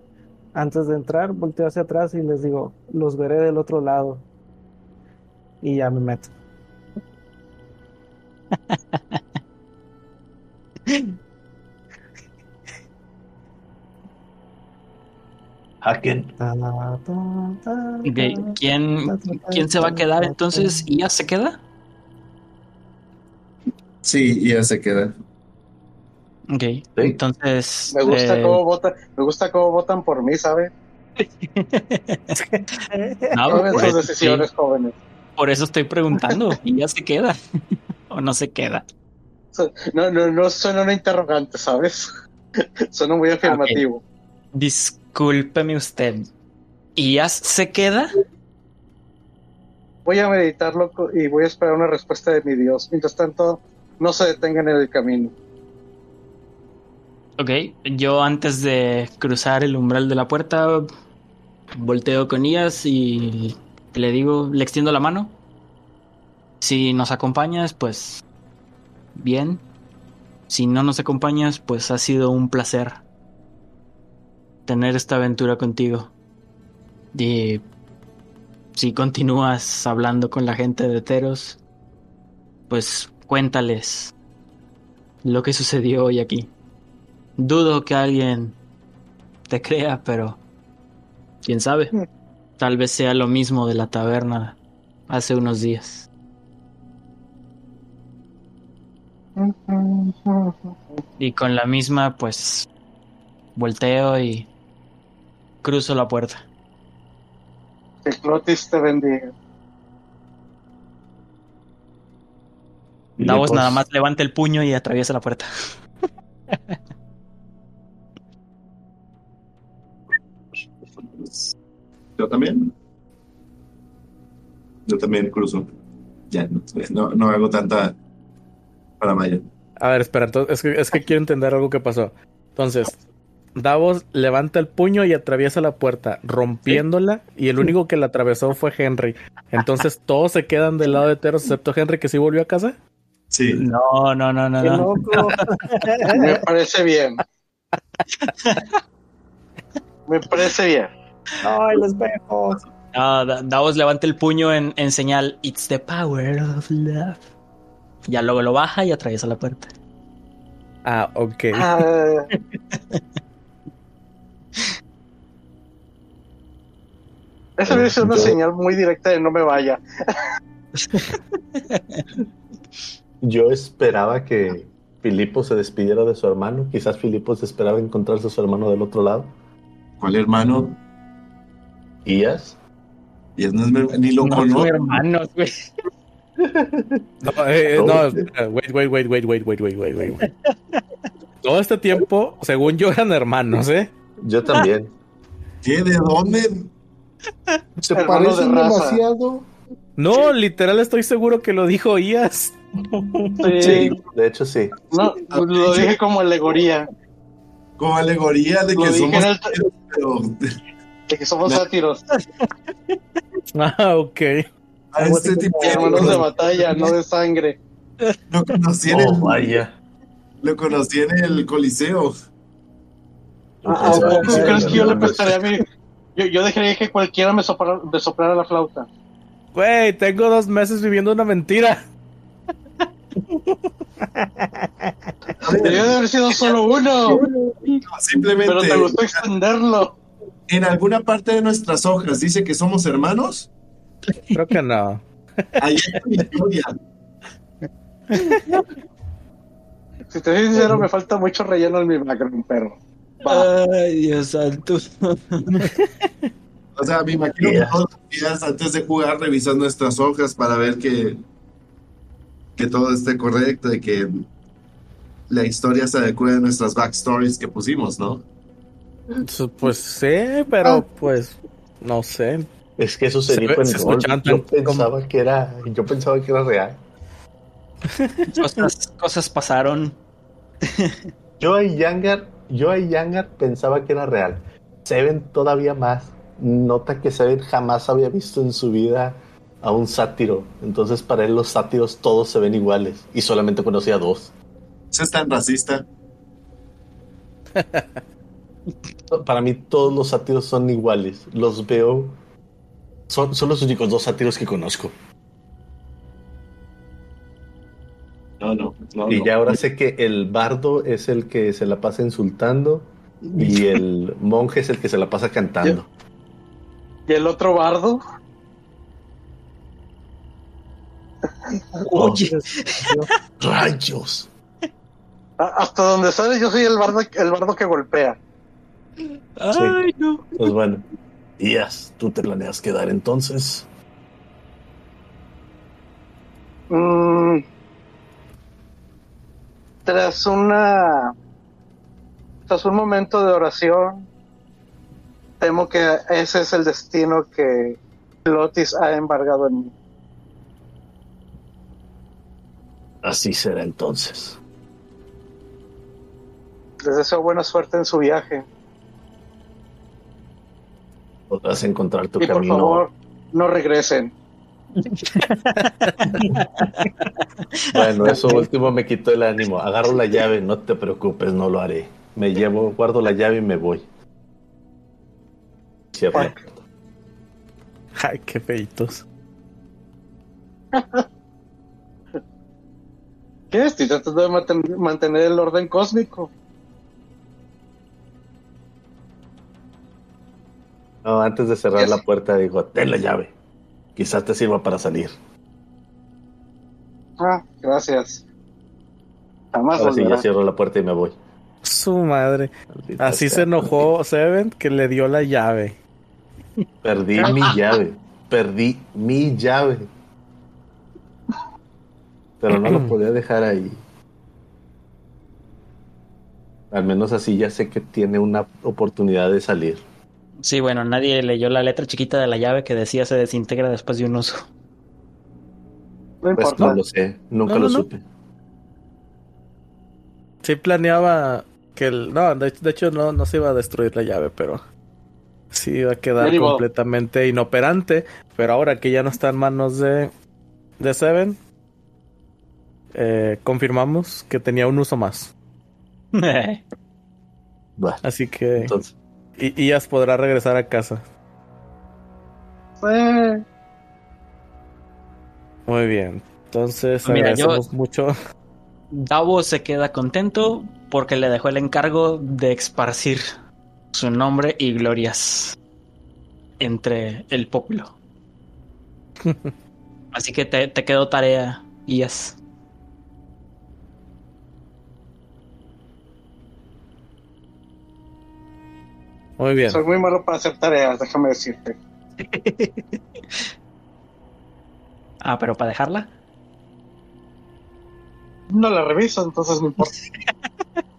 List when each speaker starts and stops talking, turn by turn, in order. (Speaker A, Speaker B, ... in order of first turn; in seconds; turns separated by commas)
Speaker A: 0.6-4.3, Speaker A: 5.6-6.3, Speaker B: 8.7-9.2, Speaker C: 15.8-16.4, Speaker A: 16.4-20.9, Speaker B: 18.0-21.6, Speaker D: 24.0-25.1, Speaker B: 26.5-28.6, Speaker E: 27.9-30.7, Speaker B: 31.2-32.5, Speaker A: 32.5-33.9, Speaker B: 33.3-34.5, Speaker E: 33.5-35.0, Speaker B: 35.4-37.4, Speaker B: 38.1-38.8, Speaker E: 39.5-42.1, Speaker E: 42.9-44.0, Speaker B: 43.5-43.8, Speaker B: 44.5-46.2, Speaker B: 47.0-48.1, Speaker E: 50.1-55.3, Speaker B: 57.4-60.9, Speaker B: 61.8-65.4, Speaker B: 66.6-68.2, Speaker B: 69.2-69.6, Speaker B: 70.5-73.0, Speaker B: 74.7-76.1, Speaker B: 77.1-77.6, Speaker B: 78.8-81.6, Speaker B: 82.7-84.1, Speaker B: 85.2-86.5, Speaker B: 87.4-88.6, Speaker B: 89.5-90.4, Speaker B: 91.4-91.9, Speaker B: 92.6-94.6, Speaker B: 95.1-96.1, Speaker E: 99.4-101.0, Speaker B: 101.2-102.7, Speaker B: 103.6-104.5, Speaker B: 105.6-106.4, Speaker E: 108.0-109.3, Speaker C: 113.2-113.8, Speaker B: 113.2-115.5, Speaker D: 121.1-121.5, Speaker D: 122.2-122.7, Speaker D: 124.9-125.7, Speaker D: 126.3-128.0, Speaker D: 129.0-129.4, Speaker F: 129.8-133.0, Speaker F: 133.6-142.8, Speaker D: 143.3-143.7, Speaker B: 143.5-145.0, Speaker A: 144.6-146.4, Speaker E: 146.1-147.2, Speaker B: 148.2-148.7, Speaker E: 150.1-150.9, Speaker A: 151.4-152.6, Speaker B: 152.9-157.2, Speaker B: 158.1-159.7, Speaker F: 160.8-161.8, Speaker E: 161.6-162.3, Speaker B: 162.3-163.0, Speaker E: 167.6-169.8, Speaker C: 167.7-168.4, Speaker B: 171.7-172.0, Speaker C: 173.2-179.3, Speaker D: 180.0-180.8, Speaker C: 182.1-182.6, Speaker D: 183.4-184.7, Speaker B: 184.2-185.7, Speaker C: 186.4-187.1, Speaker F: 187.2-190.3, Speaker C: 187.7-188.3, Speaker B: 190.2-190.8, Speaker F: 191.4-193.9, Speaker C: 194.2-194.9, Speaker D: 195.6-196.7, Speaker C: 197.8-199.5, Speaker E: 197.9-199.0, Speaker F: 200.0-202.6, Speaker A: 202.8-203.7, Speaker E: 203.4-204.0, Speaker F: 203.6-203.9, Speaker D: 203.7-204.0, Speaker C: 204.1-204.7, Speaker E: 204.9-206.9, Speaker D: 205.3-205.9, Speaker D: 207.8-210.4, Speaker E: 208.8-209.5, Speaker E: 211.1-212.0, Speaker F: 213.5-214.4, Speaker D: 214.9-216.3, Speaker A: 215.0-216.9, Speaker E: 215.6-217.6, Speaker D: 218.3-219.5, Speaker C: 218.9-219.7, Speaker D: 220.4-222.1, Speaker C: 223.6-225.3, Speaker E: 223.8-225.6, Speaker B: 223.9-224.9, Speaker A: 224.2-224.5, Speaker E: 226.2-228.9, Speaker F: 229.5-231.8, Speaker A: 234.2-235.1, Speaker D: 235.4-236.0, Speaker E: 235.6-237.2, Speaker D: 237.9-239.2, Speaker E: 238.4-240.0, Speaker D: 240.5-243.5, Speaker F: 244.3-245.6, Speaker D: 245.6-246.7, Speaker B: 248.2-248.6, Speaker E: 250.1-253.5, Speaker B: 253.2-255.7, Speaker D: 256.8-261.2, Speaker C: 257.4-257.8, Speaker D: 262.6-264.1, Speaker D: 265.3-268.2, Speaker F: 269.2-272.5, Speaker C: 272.8-276.8, Speaker F: 273.3-274.9, Speaker F: 277.9-278.7, Speaker B: 278.3-280.0, Speaker B: 280.7-281.0, Speaker C: 281.4-294.3, Speaker D: 294.9-295.9, Speaker F: 297.6-298.0, Speaker C: 299.1-302.2, Speaker C: 303.1-304.9, Speaker D: 308.4-309.6, Speaker C: 309.1-315.9, Speaker E: 317.1-318.0, Speaker A: 321.8-323.1, Speaker B: 321.9-322.9, Speaker C: 321.9-322.3, Speaker C: 323.4-324.3, Speaker E: 325.4-328.2, Speaker B: 329.4-330.5, Speaker C: 329.5-329.8, Speaker C: 330.4-330.9, Speaker C: 331.4-333.7, Speaker E: 336.7-337.4, Speaker E: 339.9-341.1, Speaker E: 342.5-344.1, Speaker E: 345.4-349.7, Speaker C: 353.0-354.4, Speaker E: 356.8-358.5, Speaker C: 361.3-362.9, Speaker E: 362.2-364.1, Speaker B: 364.8-365.3, Speaker B: 366.0-366.9, Speaker C: 367.7-373.9, Speaker C: 375.9-376.6, Speaker E: 376.1-376.4, Speaker F: 377.9-379.0, Speaker E: 380.7-381.0, Speaker E: 383.5-386.3, Speaker C: 391.0-393.3, Speaker C: 394.0-395.1, Speaker E: 397.2-398.2, Speaker E: 399.5-400.2, Speaker C: 399.8-401.2, Speaker F: 401.6-405.8, Speaker C: 402.8-403.9, Speaker C: 406.8-409.9, Speaker C: 412.4-413.8, Speaker F: 412.5-412.9, Speaker C: 416.7-419.8, Speaker B: 420.4-424.5, Speaker E: 426.2-426.8, Speaker C: 426.4-428.0, Speaker F: 427.4-427.9, Speaker F: 430.4-434.6, Speaker F: 435.5-440.1, Speaker E: 436.2-436.6, Speaker F: 440.8-441.4, Speaker F: 442.9-445.3, Speaker B: 446.1-446.6, Speaker F: 448.0-448.8, Speaker C: 448.6-448.9, Speaker F: 449.4-451.0, Speaker E: 452.8-453.4, Speaker F: 455.7-458.1, Speaker B: 457.1-457.6, Speaker B: 458.9-463.2, Speaker B: 463.9-465.6, Speaker B: 466.6-468.0, Speaker F: 469.2-469.5, Speaker B: 470.1-472.4, Speaker F: 479.4-479.8, Speaker E: 479.7-481.8, Speaker B: 482.2-483.4, Speaker B: 485.2-486.1, Speaker E: 488.5-489.9